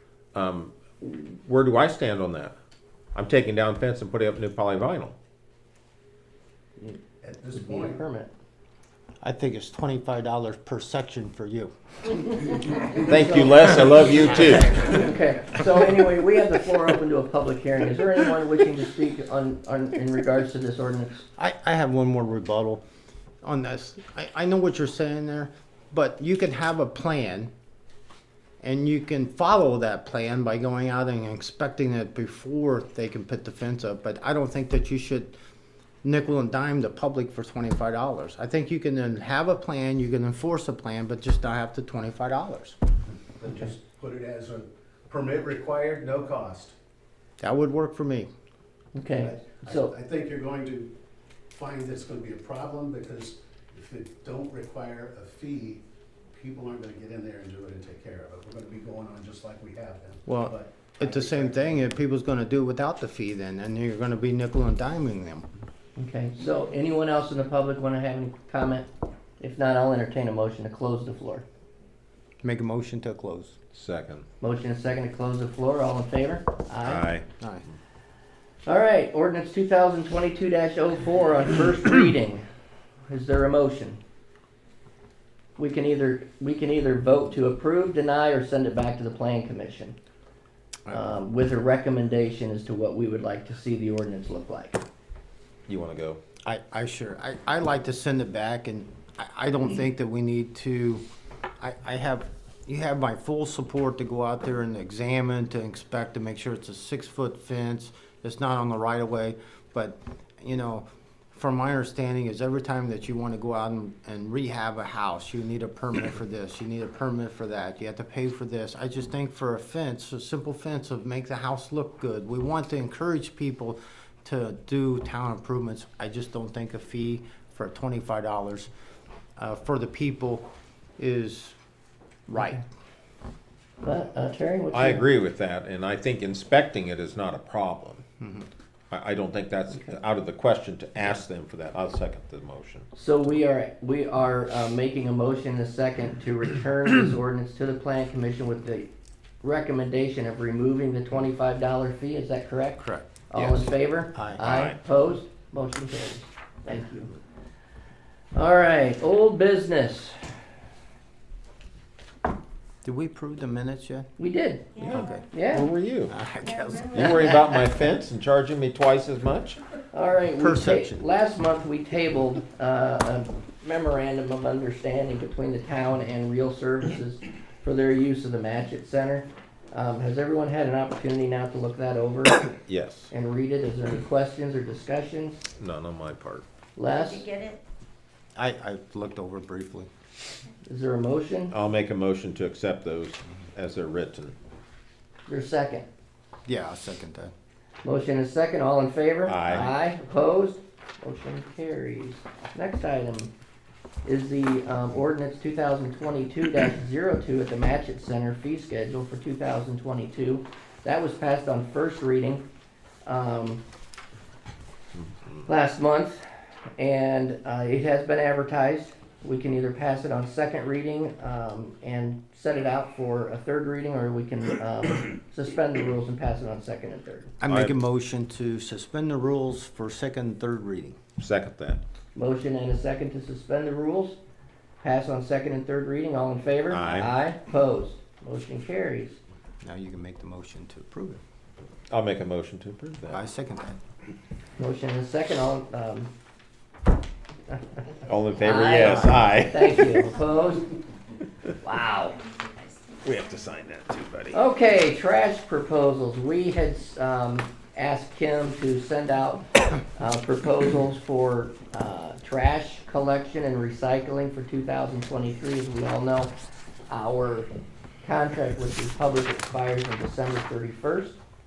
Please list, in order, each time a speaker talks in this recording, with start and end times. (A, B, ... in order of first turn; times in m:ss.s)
0:00.3-0:02.5 A
0:03.1-0:05.2 A
0:07.2-0:08.0 B
0:07.5-0:08.3 C
0:09.2-0:11.7 D
0:13.0-0:15.0 A
0:13.0-0:21.2 C
0:21.4-0:22.8 D
0:23.4-0:27.5 D
0:28.6-0:35.3 D
0:36.0-0:42.8 D
0:43.4-0:46.8 B
0:47.4-0:48.3 D
0:48.9-0:49.9 C
0:49.2-0:50.9 B
0:51.5-1:01.8 B
1:00.2-1:05.4 D
1:06.0-1:08.9 C
1:09.4-1:11.4 C
1:12.4-1:13.6 D
1:13.7-1:14.2 A
1:14.4-1:17.1 C
1:16.8-1:17.2 A
1:17.4-1:17.6 D
1:18.6-1:22.4 C
1:23.1-1:24.0 C
1:25.6-1:30.0 C
1:30.9-1:34.8 C
1:35.7-1:36.2 A
1:36.4-1:41.0 D
1:41.6-2:08.7 D
2:09.4-2:10.5 D
2:11.0-2:11.6 D
2:12.3-2:12.6 D
2:12.3-2:12.6 C
2:13.8-2:15.0 C
2:14.7-2:18.0 A
2:18.2-2:18.5 D
2:18.9-2:22.9 A
2:22.9-2:28.9 C
2:29.4-2:37.1 C
2:32.8-2:34.5 D
2:34.4-2:34.8 A
2:38.3-2:40.2 C
2:42.8-2:44.1 D
2:44.2-2:45.7 C
2:44.8-2:45.2 E
2:44.8-2:46.1 A
2:44.9-2:45.2 D
2:46.1-2:47.5 D
2:46.4-2:47.4 E
2:46.9-2:49.6 A
2:49.9-3:02.5 C
2:50.4-2:51.0 D
3:02.7-3:03.1 A
3:03.1-3:05.4 C
3:05.6-3:06.4 A
3:06.8-3:07.2 C
3:06.9-3:07.6 E
3:08.4-3:09.9 D
3:10.6-3:11.5 C
3:11.5-3:14.4 A
3:15.3-3:15.9 C
3:16.5-3:17.3 D
3:17.8-3:23.3 C
3:19.2-3:19.8 A
3:24.0-3:32.5 C
3:33.0-3:33.6 C
3:35.5-3:36.2 C
3:36.8-3:47.3 C
3:47.4-3:51.0 D
3:47.5-3:47.8 A
3:51.2-3:51.8 A
3:52.2-3:54.2 C
3:54.8-3:59.2 C
3:56.7-3:57.1 A
3:59.6-4:01.2 D
4:01.9-4:03.2 A
4:03.1-4:03.8 D
4:04.6-4:06.1 C
4:08.1-4:10.1 A
4:08.4-4:10.7 C
4:11.6-4:12.2 C
4:13.0-4:14.4 A
4:14.3-4:26.3 C
4:26.9-4:27.5 C
4:28.0-4:31.2 C